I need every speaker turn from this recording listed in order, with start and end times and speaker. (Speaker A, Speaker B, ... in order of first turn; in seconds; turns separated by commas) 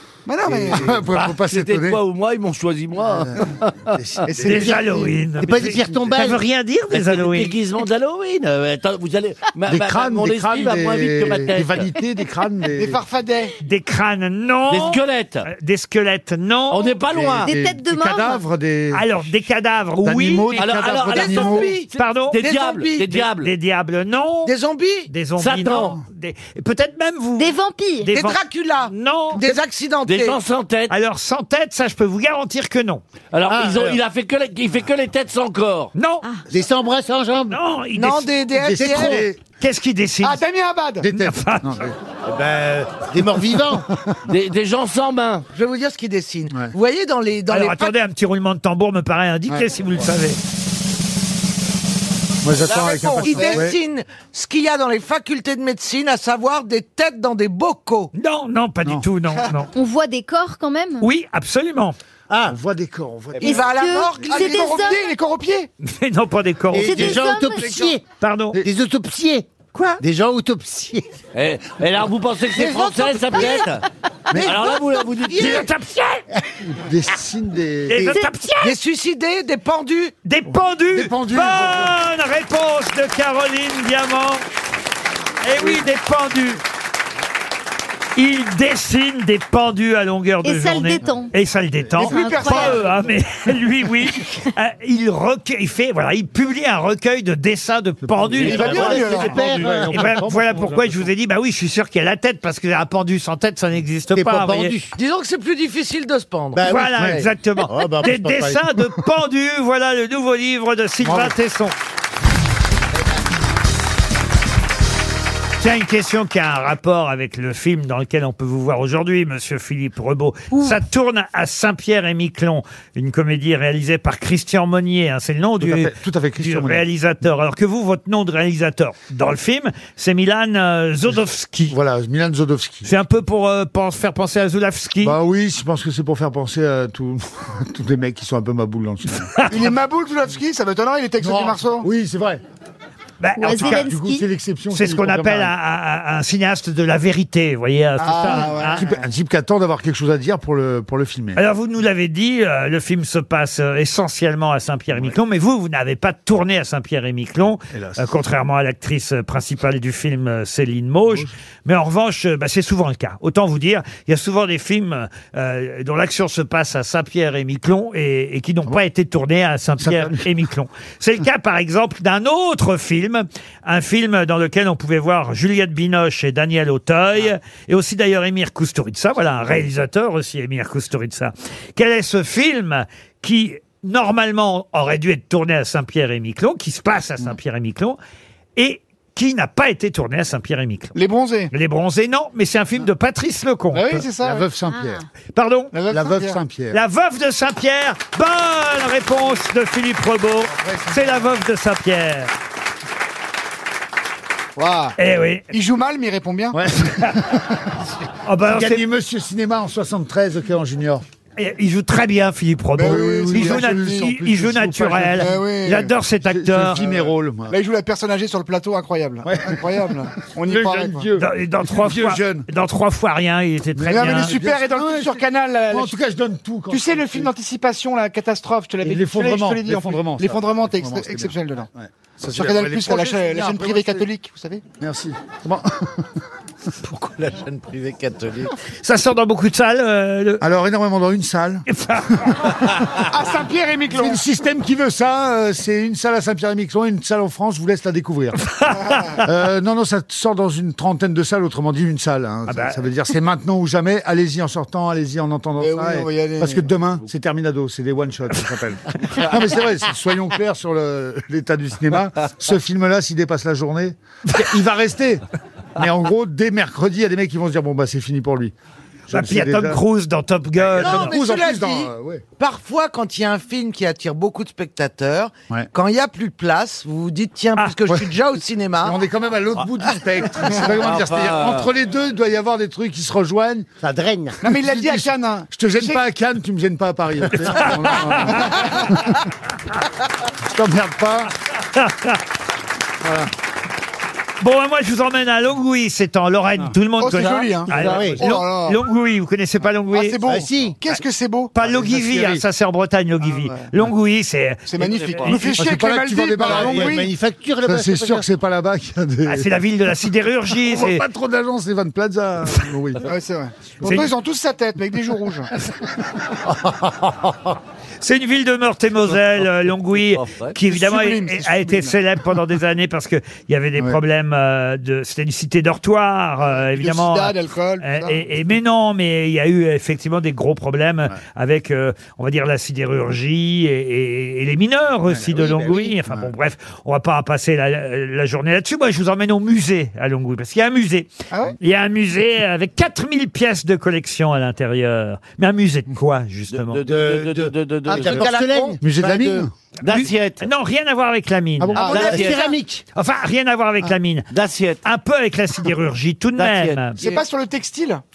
Speaker A: 0.2-1.0, Speaker B: 0.5-2.0, Speaker C: 1.1-4.0, Speaker B: 3.2-4.8, Speaker A: 4.3-5.1, Speaker D: 4.4-7.5, Speaker E: 5.4-6.4, Speaker C: 6.9-11.9, Speaker B: 9.7-13.0, Speaker A: 12.7-13.5, Speaker D: 13.6-16.9, Speaker C: 14.7-15.5, Speaker C: 16.7-17.5, Speaker B: 17.1-19.3, Speaker F: 17.4-18.4, Speaker D: 18.9-20.6, Speaker B: 20.0-21.7, Speaker C: 20.5-23.5, Speaker G: 21.1-21.9, Speaker D: 21.9-22.4, Speaker G: 22.4-23.2, Speaker D: 23.1-24.5, Speaker G: 24.4-25.1, Speaker D: 25.1-29.5, Speaker C: 25.4-26.0, Speaker F: 27.4-28.1, Speaker G: 28.1-30.4, Speaker C: 30.1-30.9, Speaker D: 30.9-33.0, Speaker C: 33.3-35.9, Speaker E: 33.5-34.0, Speaker D: 35.9-36.2, Speaker E: 36.5-37.6, Speaker D: 37.5-38.4, Speaker G: 38.0-39.2, Speaker B: 38.6-39.4, Speaker E: 38.8-39.1, Speaker D: 39.6-40.4, Speaker A: 40.2-41.1, Speaker B: 41.0-42.0, Speaker D: 41.1-41.9, Speaker E: 42.3-43.9, Speaker C: 44.3-45.5, Speaker G: 45.5-47.9, Speaker D: 47.5-50.4, Speaker B: 52.4-53.8, Speaker G: 52.6-58.1, Speaker D: 58.1-59.7, Speaker F: 59.7-61.1, Speaker D: 61.0-62.0, Speaker E: 62.3-62.6, Speaker B: 62.5-63.7, Speaker G: 63.4-64.8, Speaker F: 63.4-65.1, Speaker A: 64.2-65.7, Speaker D: 65.8-67.2, Speaker E: 66.7-68.0, Speaker F: 66.8-67.9, Speaker D: 68.2-68.6, Speaker E: 68.5-71.0, Speaker C: 71.3-73.8, Speaker E: 72.5-73.5, Speaker G: 72.6-73.5, Speaker C: 74.3-75.7, Speaker G: 75.3-75.6, Speaker D: 75.3-76.2, Speaker B: 76.6-78.2, Speaker D: 77.9-78.7, Speaker G: 78.6-80.1, Speaker D: 80.2-84.4, Speaker B: 80.5-82.0, Speaker D: 85.4-86.6, Speaker D: 88.2-104.7, Speaker F: 90.4-91.3, Speaker A: 92.0-92.9, Speaker F: 92.0-92.8, Speaker B: 98.0-98.6, Speaker C: 98.4-100.0, Speaker E: 98.4-100.5, Speaker A: 98.5-99.4, Speaker B: 100.3-100.7, Speaker E: 104.1-104.9, Speaker G: 105.0-106.8, Speaker E: 106.5-108.6, Speaker D: 106.6-111.7, Speaker B: 111.0-111.3, Speaker D: 115.6-131.7, Speaker B: 125.6-126.8, Speaker B: 131.7-132.9, Speaker D: 132.8-135.2, Speaker B: 135.0-139.3, Speaker A: 139.5-141.9, Speaker B: 141.2-142.4, Speaker D: 143.2-143.9, Speaker F: 143.4-144.2, Speaker B: 143.4-145.5, Speaker D: 144.7-148.8, Speaker A: 148.0-149.0, Speaker B: 148.3-151.4, Speaker D: 151.3-188.0, Speaker B: 157.7-158.1, Speaker B: 169.8-170.3, Speaker D: 188.6-190.9, Speaker A: 190.9-191.5, Speaker D: 191.5-194.0, Speaker A: 193.7-194.5, Speaker B: 194.2-195.0, Speaker F: 194.7-195.0, Speaker D: 195.3-195.7, Speaker A: 195.7-196.4, Speaker B: 195.9-196.8, Speaker D: 196.7-202.3, Speaker B: 200.6-201.2, Speaker A: 204.6-204.9, Speaker D: 205.0-205.5, Speaker A: 205.5-206.6, Speaker B: 206.5-207.8, Speaker D: 208.2-208.8, Speaker B: 208.4-211.0, Speaker D: 211.4-216.8, Speaker A: 212.8-214.1, Speaker B: 212.8-215.4, Speaker A: 215.2-215.9, Speaker B: 216.2-217.6, Speaker A: 216.8-221.0, Speaker B: 219.2-219.7, Speaker B: 220.3-222.5, Speaker D: 221.2-224.3, Speaker B: 223.8-227.3, Speaker A: 223.9-225.9, Speaker A: 226.7-231.7, Speaker B: 228.8-234.1, Speaker A: 232.3-234.6, Speaker B: 234.8-236.1, Speaker C: 236.8-238.5, Speaker D: 238.8-240.4, Speaker B: 240.4-243.0, Speaker D: 241.7-242.4, Speaker A: 243.1-244.2, Speaker B: 243.9-248.5, Speaker D: 248.5-249.2, Speaker B: 249.1-265.2, Speaker D: 252.5-252.8, Speaker A: 255.6-256.7, Speaker B: 265.8-268.5, Speaker B: 269.1-269.8, Speaker D: 269.1-271.1, Speaker B: 270.6-272.2, Speaker G: 270.8-279.0, Speaker B: 278.8-283.7, Speaker C: 280.8-281.7, Speaker E: 283.8-284.4, Speaker A: 284.4-286.0, Speaker B: 284.5-289.2, Speaker D: 287.4-288.5, Speaker A: 288.4-288.7, Speaker B: 290.5-291.3, Speaker D: 291.7-292.2, Speaker B: 293.0-293.3, Speaker D: 294.4-300.2, Speaker A: 297.0-298.8, Speaker E: 297.7-298.2, Speaker A: 299.9-301.5, Speaker E: 300.2-300.8, Speaker D: 301.5-305.3, Speaker B: 301.6-302.4, Speaker A: 303.2-303.7, Speaker A: 304.7-307.1, Speaker C: 304.8-305.5, Speaker B: 305.2-307.0, Speaker E: 306.4-308.2, Speaker B: 307.6-309.5, Speaker D: 309.2-311.0, Speaker B: 310.6-313.1, Speaker A: 313.1-315.5, Speaker B: 313.8-314.1, Speaker D: 313.8-314.1, Speaker D: 318.0-346.8, Speaker C: 319.9-320.6, Speaker A: 320.6-321.9, Speaker A: 326.5-328.2, Speaker E: 335.2-336.1, Speaker A: 341.3-341.6, Speaker C: 346.5-348.2, Speaker E: 346.8-349.5, Speaker G: 347.9-348.8, Speaker B: 348.8-349.5, Speaker C: 349.8-350.4, Speaker D: 349.8-352.2, Speaker B: 351.6-352.0, Speaker A: 351.8-352.5, Speaker C: 351.8-352.5, Speaker E: 351.9-352.8, Speaker D: 352.9-354.3, Speaker C: 354.3-354.8, Speaker D: 354.8-357.0, Speaker C: 356.4-357.0, Speaker A: 357.0-358.0